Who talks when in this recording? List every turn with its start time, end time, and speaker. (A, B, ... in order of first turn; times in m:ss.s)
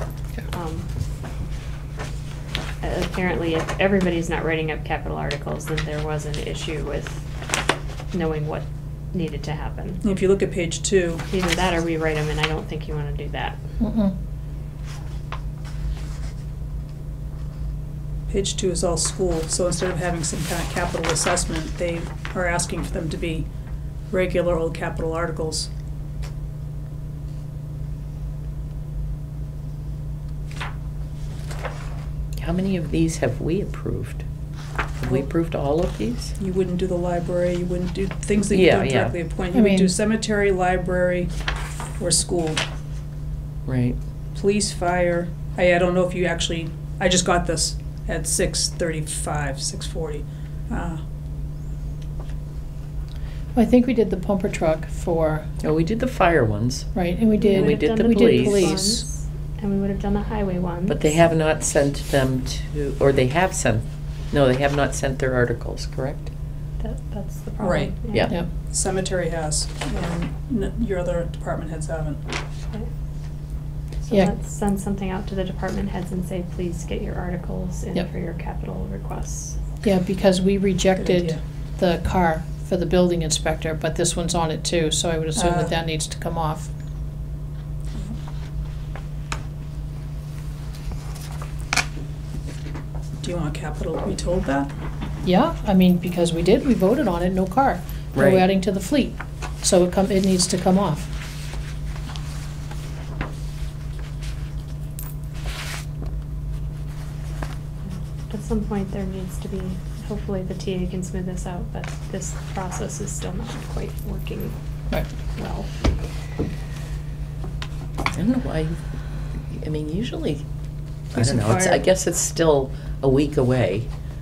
0:00.5-0:00.9 A
0:02.8-0:07.3 A
0:08.1-0:10.0 A
0:10.0-0:11.2 B
0:11.3-0:13.6 A
0:13.8-0:14.1 C
0:18.3-0:23.5 B
0:24.1-0:25.7 B
0:32.4-0:34.2 D
0:35.0-0:36.3 D
0:36.4-0:41.3 B
0:38.5-0:39.2 D
0:39.5-0:39.9 C
0:42.0-0:42.6 B
0:43.7-0:44.0 D
0:44.3-0:51.0 B
0:53.6-0:55.5 C
0:55.6-0:56.9 D
0:57.0-0:59.1 C
0:57.4-1:01.2 A
0:57.5-0:58.8 D
1:00.9-1:06.3 D
1:06.8-1:08.3 A
1:07.6-1:08.0 B
1:08.1-1:08.4 D
1:08.7-1:12.2 B
1:14.0-1:19.6 A
1:19.8-1:26.7 C
1:21.0-1:21.4 B
1:25.4-1:25.7 B
1:33.2-1:34.7 B
1:35.2-1:41.1 C
1:38.2-1:38.4 D
1:47.9-1:54.6 A
1:55.4-1:55.9 A
1:58.2-1:58.8 D
1:59.5-2:00.4 D
2:01.1-2:03.9 D
2:01.3-2:01.8 A